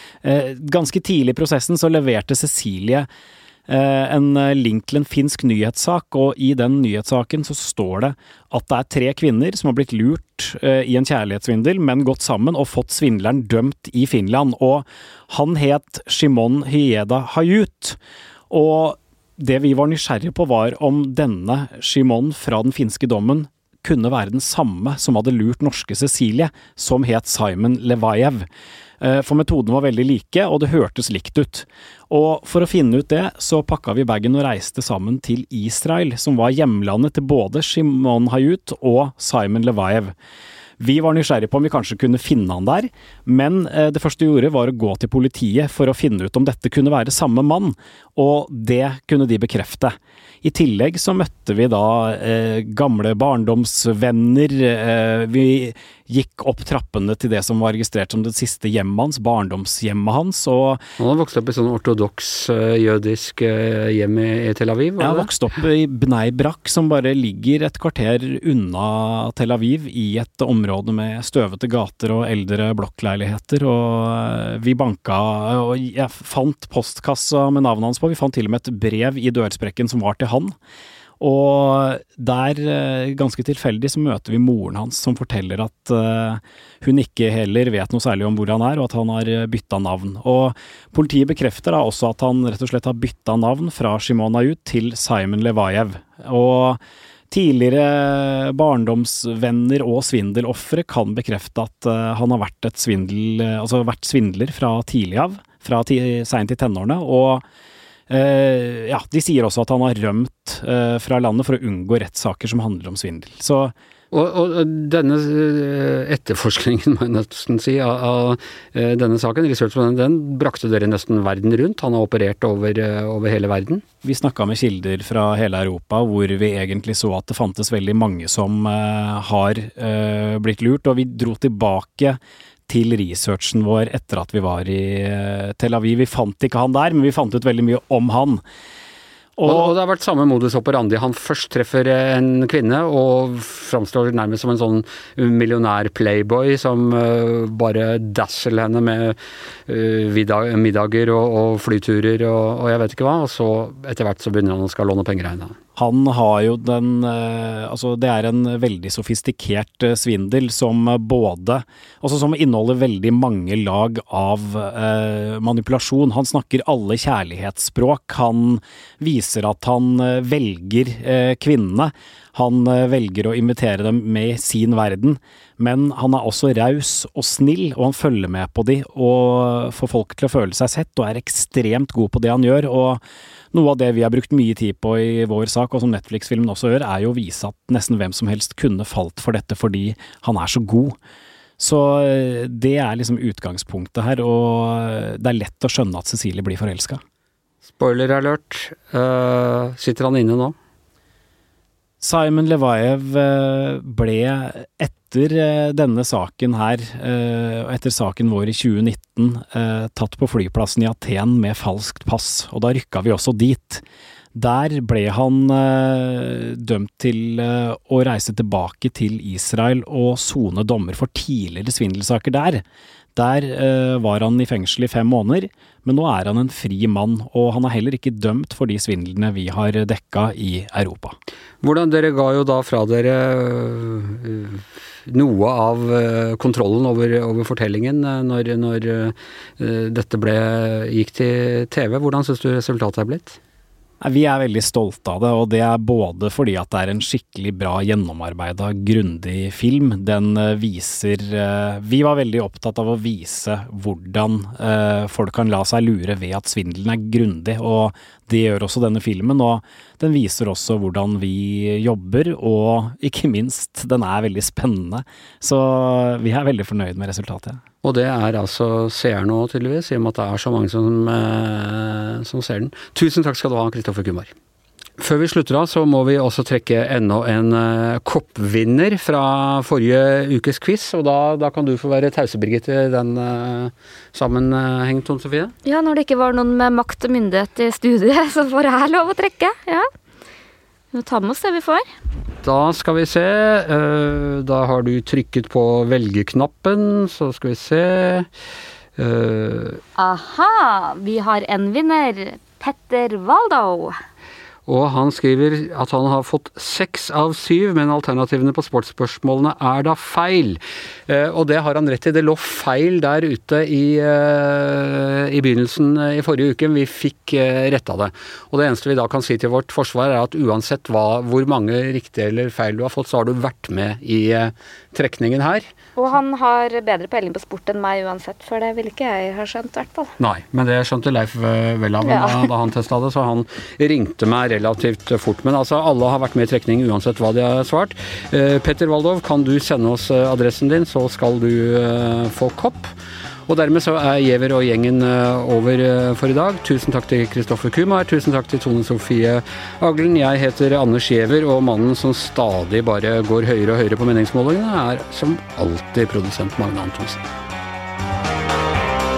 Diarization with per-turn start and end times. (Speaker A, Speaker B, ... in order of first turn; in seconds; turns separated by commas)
Speaker A: 0.2-3.1, Speaker A: 3.7-18.0, Speaker A: 18.5-28.4, Speaker A: 29.0-40.1, Speaker A: 40.8-60.8, Speaker B: 61.0-65.3, Speaker A: 65.0-80.5, Speaker A: 81.2-96.8, Speaker A: 97.3-107.4, Speaker A: 108.1-113.7, Speaker B: 114.1-123.8, Speaker A: 124.0-138.4, Speaker A: 139.4-139.7, Speaker B: 139.5-149.2, Speaker B: 149.7-155.6, Speaker A: 155.8-183.0, Speaker A: 183.5-191.0, Speaker A: 191.6-197.0, Speaker B: 197.7-200.6, Speaker A: 202.0-213.8, Speaker A: 214.3-222.6, Speaker A: 223.2-231.2, Speaker B: 231.6-243.4, Speaker A: 244.0-267.6, Speaker B: 267.8-274.3, Speaker B: 275.0-285.5, Speaker C: 285.6-289.9, Speaker C: 290.9-291.9, Speaker B: 292.4-298.3, Speaker B: 299.0-299.8, Speaker C: 300.0-303.9, Speaker B: 304.7-325.6, Speaker C: 326.0-330.1, Speaker B: 330.2-342.9, Speaker C: 332.0-332.5, Speaker B: 343.5-357.2